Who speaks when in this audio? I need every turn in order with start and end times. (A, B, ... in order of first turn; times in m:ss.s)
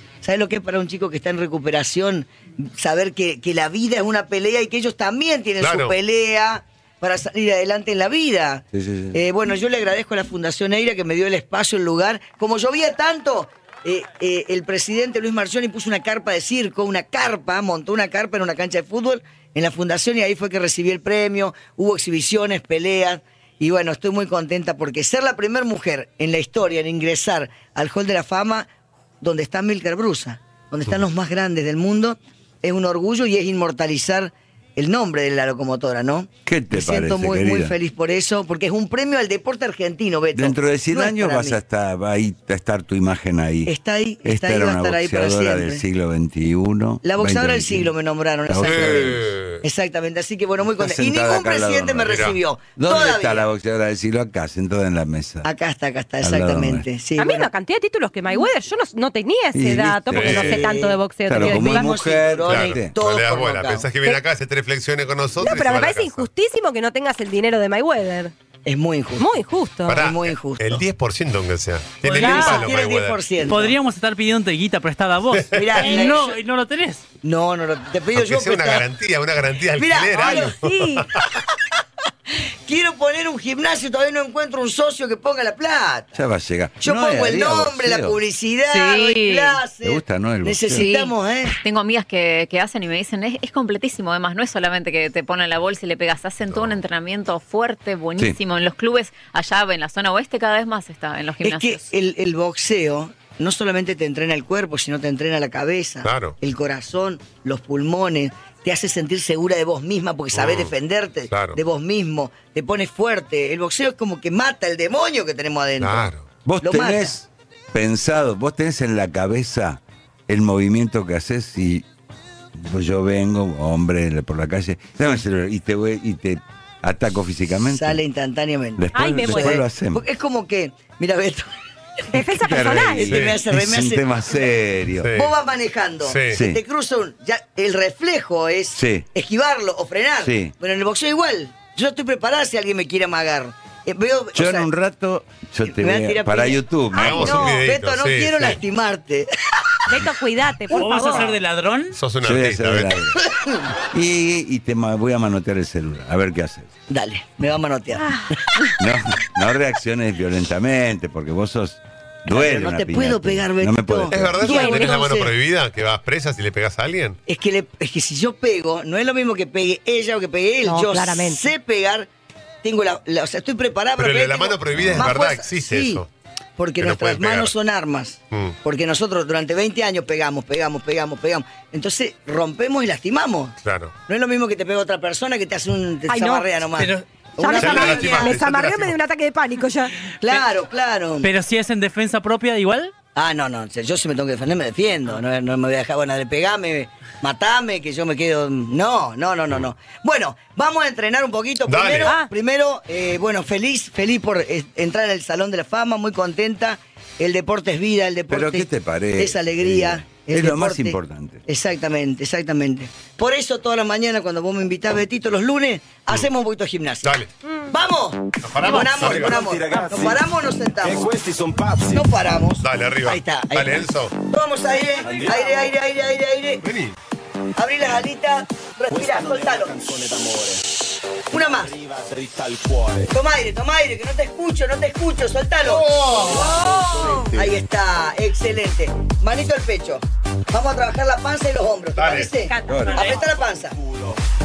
0:00.2-0:28.7 A
0:05.6-0:05.9 B
0:08.7-0:09.2 C
0:29.2-0:41.6 A
0:36.4-0:37.7 C
0:40.3-0:47.9 C
0:43.6-0:45.8 A
0:47.0-0:53.4 A
0:48.5-0:49.3 C
0:48.6-0:49.6 B
0:50.8-0:55.5 C
0:52.0-0:52.4 B
0:55.4-0:57.5 A
0:56.2-0:56.8 C
0:57.2-1:01.9 D
0:59.5-1:00.7 C
1:00.1-1:00.4 B
1:00.3-1:03.9 A
1:01.2-1:02.9 C
1:02.5-1:06.3 B
1:05.4-1:08.3 D
1:08.6-1:09.4 A
1:09.2-1:10.1 D
1:09.9-1:13.2 B
1:09.9-1:10.8 A
1:12.0-1:12.7 E
1:12.1-1:13.8 A
1:13.5-1:17.0 E
1:15.3-1:15.8 B
1:15.5-1:16.4 A
1:17.2-1:18.9 A
1:18.1-1:21.2 B
1:19.8-1:20.7 A
1:20.4-1:21.0 D
1:22.6-1:26.2 A
1:26.1-1:28.2 C
1:26.8-1:31.6 A
1:28.7-1:29.6 D
1:29.8-1:30.9 C
1:30.7-1:31.1 D
1:31.6-1:41.8 F
1:41.4-1:57.1 A
1:46.0-1:46.3 B
1:50.3-1:50.7 B
1:51.3-1:51.6 B
1:55.8-1:56.3 B
1:56.4-2:01.8 C
2:02.5-2:08.0 C
2:07.6-2:11.5 A
2:08.8-2:10.0 C
2:08.9-2:09.5 D
2:12.1-2:13.1 D
2:12.2-2:15.1 C
2:13.0-2:14.1 A
2:13.0-2:13.3 B
2:15.0-2:15.3 B
2:15.1-2:24.7 A
2:16.0-2:16.4 B
2:16.3-2:16.6 C
2:18.8-2:19.1 C
2:20.2-2:20.5 C
2:24.3-2:27.5 C
2:25.6-2:29.9 A
2:26.9-2:28.6 B
2:29.9-2:31.3 D
2:30.7-2:32.0 E
2:31.9-2:33.0 B
2:32.2-2:33.2 C
2:33.7-2:36.7 C
2:36.9-2:38.7 A
2:38.0-2:38.3 D
2:38.8-2:44.5 C
2:42.3-2:45.3 A
2:44.1-2:47.2 B
2:44.4-2:45.0 D
2:47.3-2:52.1 A
2:50.6-2:51.4 D
2:52.6-2:56.0 A
2:54.0-2:56.1 B
2:54.7-2:55.1 C
2:56.6-3:08.4 A
2:56.8-2:57.5 B
3:03.6-3:03.9 B
3:06.1-3:06.5 D
3:06.8-3:07.0 E
3:07.4-3:09.9 D
3:07.6-3:09.0 B
3:10.2-3:11.3 A
3:11.2-3:12.9 E
3:13.2-3:41.1 A
3:21.7-3:22.2 B
3:28.3-3:31.4 C
3:37.0-3:37.3 B
3:38.4-3:39.4 B
3:38.6-3:40.2 G
3:40.8-3:42.1 G
3:41.9-3:46.6 A
3:42.6-3:44.1 B
3:45.0-3:45.7 G
3:46.6-3:46.9 B
3:47.6-3:49.7 A
3:48.9-3:50.6 G
3:51.3-3:51.7 A
3:51.5-3:53.1 G
3:53.1-3:56.3 A
3:55.6-3:57.6 G
3:55.9-3:56.6 B
3:57.2-4:03.8 A
4:02.0-4:02.3 B
4:02.4-4:03.2 D
4:02.7-4:03.1 C